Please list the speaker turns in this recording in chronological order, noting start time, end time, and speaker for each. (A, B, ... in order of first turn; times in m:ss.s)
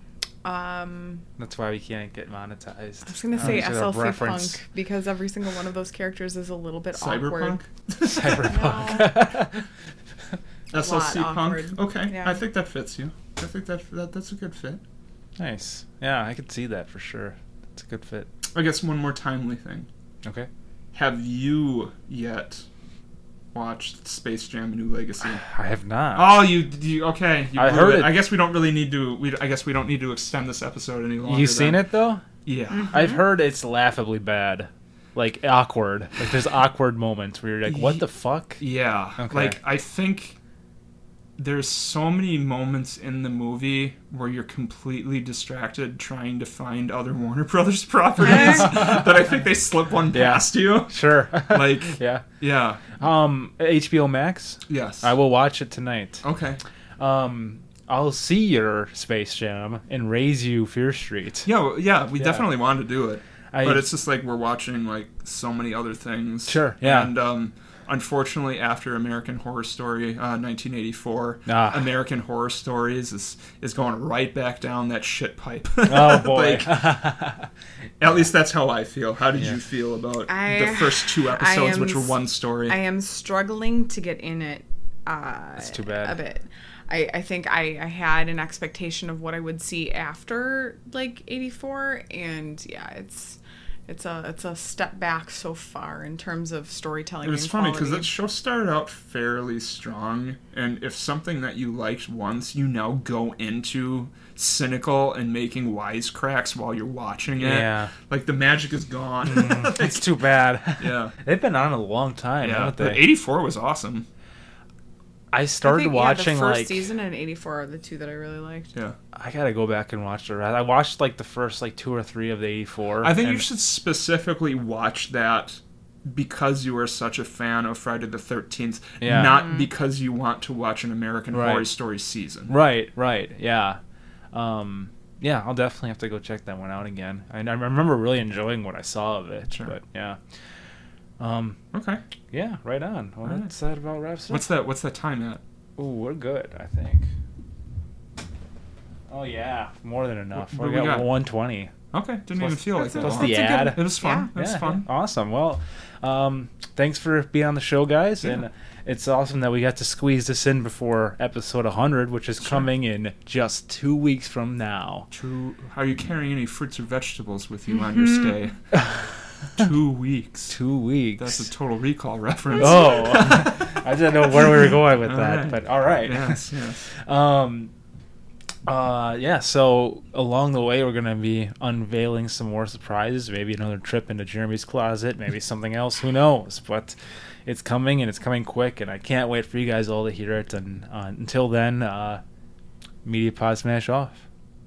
0:00.4-0:01.2 A
0:01.4-0:04.6 B
0:03.0-0:07.6 A
0:03.4-0:03.7 C
0:06.9-0:08.5 C
0:08.0-0:09.6 B
0:08.3-0:09.3 A
0:10.7-0:14.8 C
0:10.7-0:12.4 A
0:15.4-0:18.3 B
0:18.4-0:19.9 C
0:20.2-0:20.5 B
0:20.9-0:22.6 C
0:23.5-0:25.4 C
0:25.2-0:26.5 B
0:26.1-0:31.8 C
0:27.6-0:28.2 B
0:31.2-0:32.2 B
0:32.4-0:32.9 C
0:32.7-0:33.2 A
0:32.9-0:38.6 B
0:37.7-0:38.0 C
0:38.6-0:40.4 C
0:39.2-0:39.6 B
0:41.4-0:51.0 C
0:48.3-0:48.6 A
0:48.6-0:48.9 B
0:50.1-0:52.2 B
0:51.5-0:52.8 C
0:53.0-0:56.2 B
0:54.7-0:55.1 C
0:56.2-0:56.6 C
0:57.0-1:01.5 B
1:01.4-1:16.8 C
1:02.2-1:02.5 B
1:03.5-1:03.9 B
1:06.5-1:07.1 B
1:11.5-1:11.8 B
1:15.9-1:17.5 B
1:18.0-1:22.8 C
1:20.3-1:38.1 A
1:25.6-1:26.2 B
1:37.2-1:50.1 C
1:47.4-1:47.9 B
1:49.2-1:53.0 B
1:50.8-1:51.1 C
1:52.4-1:54.1 C
1:55.3-1:56.8 B
1:55.6-1:58.7 A
1:59.1-2:03.4 B
2:03.0-2:12.5 C
2:09.0-2:09.4 B
2:09.1-2:09.7 A
2:11.3-2:11.7 B
2:12.5-2:13.8 B
2:14.3-2:20.2 B
2:21.2-2:21.6 B
2:21.7-2:22.0 C
2:22.3-2:24.5 B
2:23.2-2:23.5 C
2:24.3-2:25.4 C
2:25.8-2:27.1 B
2:29.1-2:31.7 B
2:30.4-2:31.1 C
2:31.9-2:34.8 C
2:32.4-2:45.1 B
2:32.7-2:34.3 A
2:45.1-2:48.6 C
2:48.0-2:48.3 A
2:48.7-2:49.1 B
2:49.6-2:50.6 C
2:50.5-2:51.4 B
2:51.2-2:53.5 C
2:52.6-2:57.7 B
2:54.4-2:56.9 C
2:58.6-3:12.2 B
3:13.0-3:14.2 B